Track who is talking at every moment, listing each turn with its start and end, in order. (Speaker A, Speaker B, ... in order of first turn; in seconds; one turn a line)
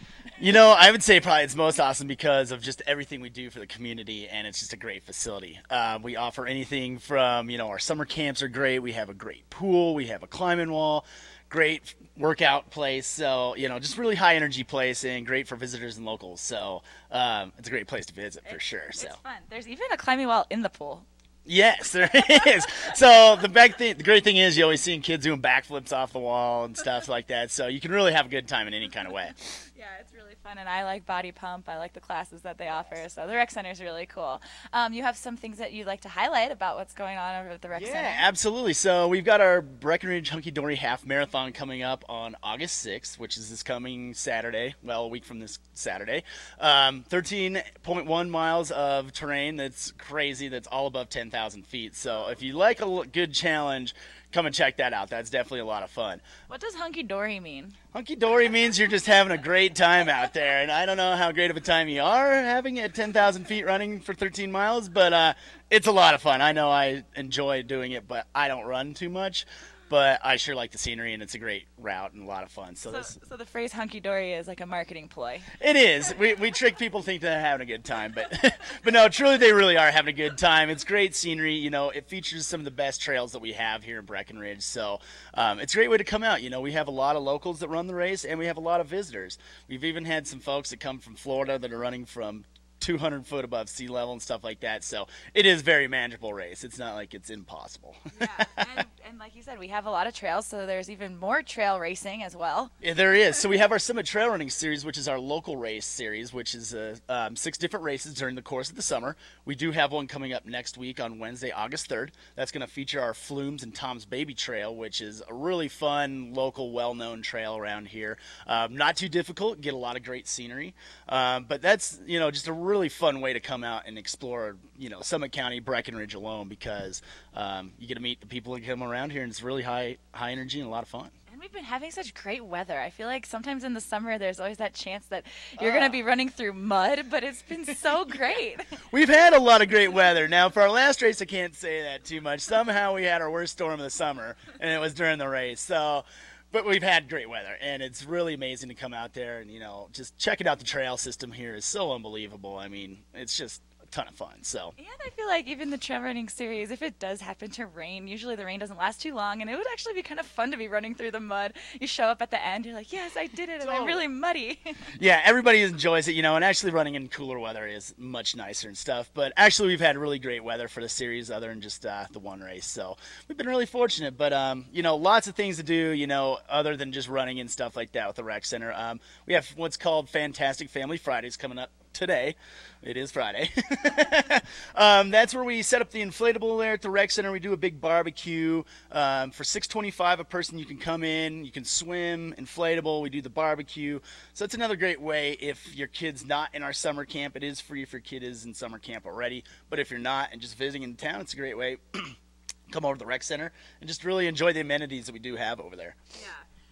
Speaker A: 0.4-19.2
Speaker B: 18.5-21.1
Speaker A: 21.5-29.4
Speaker B: 29.7-38.3
Speaker A: 37.7-56.2
Speaker B: 56.5-57.8
Speaker A: 57.9-73.2
Speaker B: 72.9-75.5
Speaker A: 75.6-98.7
Speaker B: 98.1-102.7
Speaker A: 102.8-131.1
Speaker B: 131.3-138.8
Speaker A: 135.6-136.0
Speaker A: 138.9-154.8
Speaker B: 154.8-164.8
Speaker A: 163.6-164.1
Speaker A: 165.0-202.2
Speaker A: 202.7-206.0
Speaker B: 206.2-206.4